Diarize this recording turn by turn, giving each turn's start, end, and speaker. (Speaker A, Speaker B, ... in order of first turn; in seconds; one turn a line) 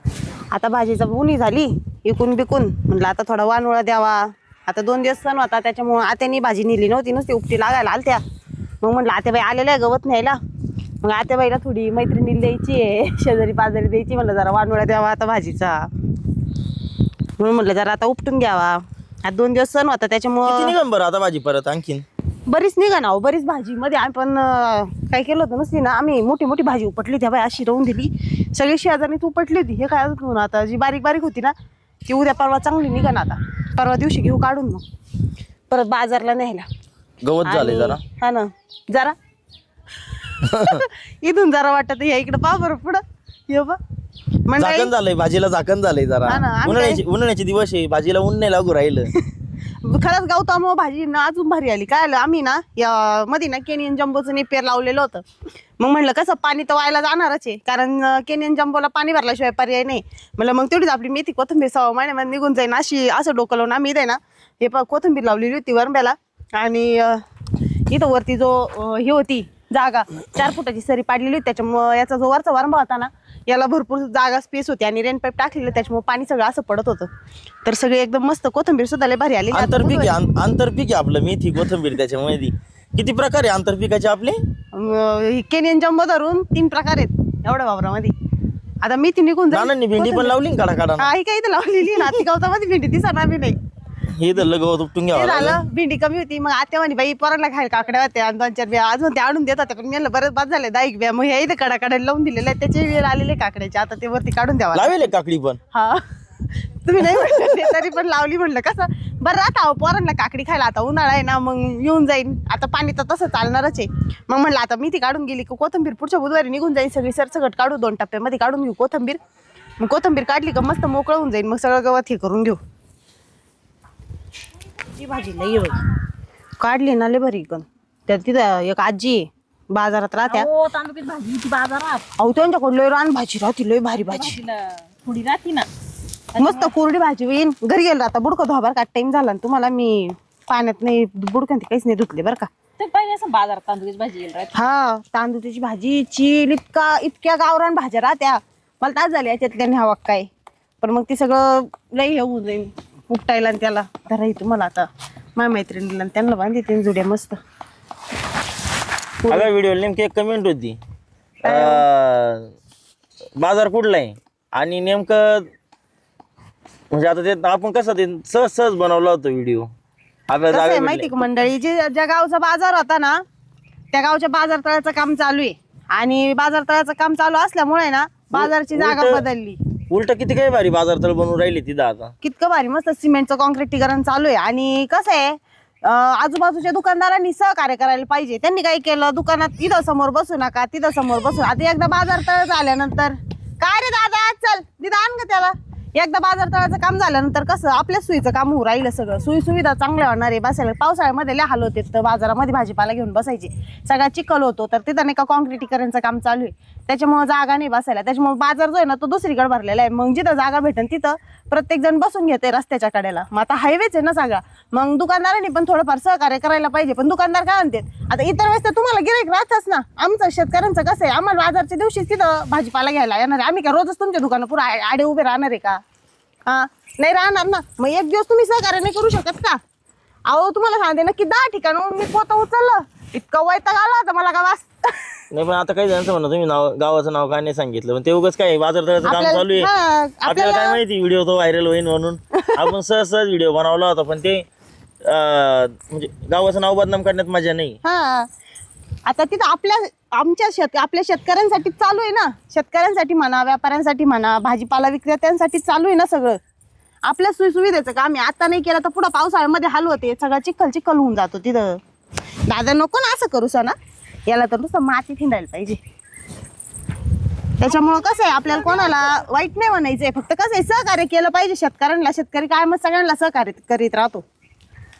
Speaker A: 0.5-8.2
Speaker A: 8.8-10.4
Speaker A: 11.0-15.9
Speaker A: 17.4-20.8
Speaker B: 20.4-22.0
Speaker A: 22.5-31.5
Speaker A: 32.1-34.8
Speaker A: 35.7-36.7
Speaker B: 37.2-38.0
Speaker A: 37.4-39.1
Speaker A: 40.4-43.8
Speaker B: 40.5-40.8
Speaker A: 44.5-44.9
Speaker B: 44.6-49.1
Speaker A: 46.3-47.0
Speaker A: 49.8-55.2
Speaker A: 55.8-67.2
Speaker A: 67.9-77.1
Speaker A: 77.6-80.2
Speaker B: 79.5-84.4
Speaker A: 84.7-88.1
Speaker A: 88.8-90.3
Speaker B: 89.5-91.1
Speaker A: 91.0-93.5
Speaker B: 94.1-95.6
Speaker A: 95.1-105.0
Speaker B: 104.7-105.6
Speaker A: 105.7-106.0
Speaker A: 106.8-119.2
Speaker A: 119.8-122.6
Speaker A: 124.9-125.8
Speaker A: 126.6-130.5
Speaker C: 130.3-132.0
Speaker A: 132.2-134.4
Speaker C: 134.0-135.7
Speaker C: 136.3-136.7
Speaker A: 136.4-142.5
Speaker C: 142.8-144.5
Speaker A: 144.5-150.3
Speaker A: 150.8-157.4
Speaker B: 159.3-160.8
Speaker A: 161.4-161.8
Speaker B: 161.4-162.5
Speaker B: 163.4-165.5
Speaker B: 166.9-169.7
Speaker B: 170.3-171.3
Speaker A: 170.5-173.2
Speaker A: 173.9-179.6
Speaker B: 178.3-179.2
Speaker B: 179.9-182.1
Speaker A: 182.2-225.8
Speaker A: 226.5-229.6
Speaker A: 230.3-235.0
Speaker B: 235.3-239.7
Speaker A: 239.0-240.8
Speaker B: 240.2-244.4
Speaker B: 245.0-247.8
Speaker A: 247.8-248.3
Speaker A: 249.1-256.4
Speaker A: 257.0-261.8
Speaker A: 262.4-263.8
Speaker A: 264.3-265.8
Speaker A: 267.6-274.2